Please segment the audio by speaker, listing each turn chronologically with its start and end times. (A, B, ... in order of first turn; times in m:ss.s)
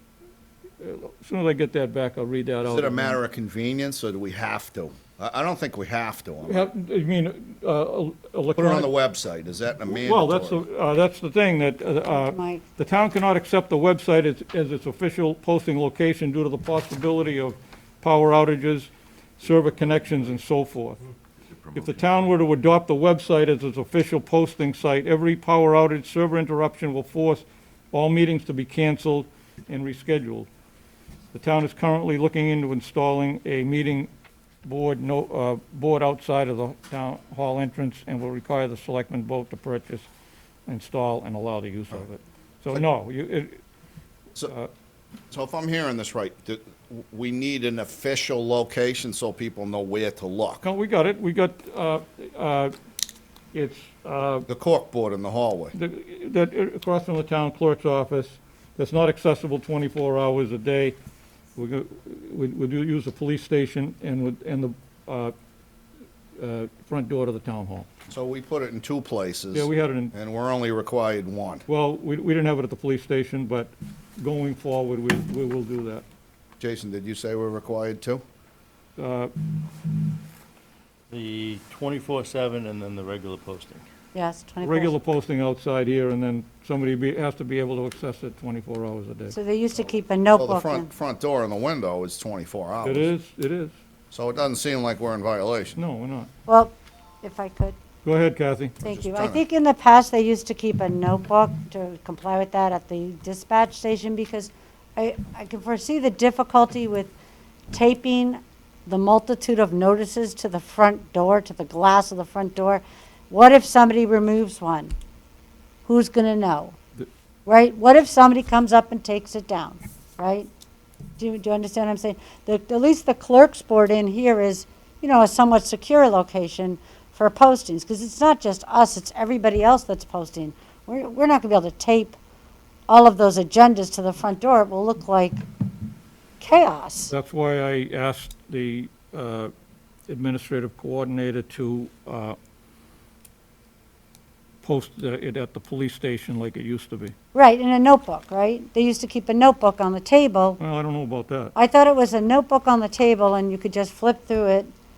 0:00.8-0:03.2 A
0:02.6-0:06.7 B
0:06.4-0:08.9 A
0:08.6-0:10.6 B
0:09.9-0:21.0 A
0:12.1-0:12.6 C
0:21.7-0:30.5 A
0:31.3-0:34.1 A
0:34.6-0:40.1 A
0:40.7-0:43.6 A
0:45.3-0:50.6 B
0:50.6-0:52.7 A
0:53.5-0:54.5 A
0:54.5-0:55.8 B
0:55.8-1:01.0 A
1:01.6-1:05.3 A
1:06.4-1:07.9 A
1:08.1-1:11.7 B
1:09.5-1:10.1 A
1:11.7-1:16.0 A
1:16.6-1:18.2 B
1:19.0-1:19.3 A
1:21.1-1:23.9 D
1:24.1-1:24.9 C
1:24.6-1:29.4 A
1:29.3-1:30.9 C
1:30.4-1:33.1 B
1:32.8-1:33.8 A
1:34.1-1:35.8 B
1:35.8-1:36.3 A
1:36.5-1:37.8 C
1:38.0-1:38.8 A
1:38.8-1:39.4 B
1:38.8-1:47.1 C
1:47.7-1:55.0 C
1:55.8-1:56.8 C
1:57.5-2:00.5 C
2:01.2-2:12.2 C
2:12.9-2:15.4 C
2:16.4-2:17.1 C
2:17.1-2:19.5 A
2:20.1-2:22.4 A
2:24.6-2:27.1 A
2:27.3-2:30.6 C
2:30.6-2:31.5 A
2:31.6-2:34.7 C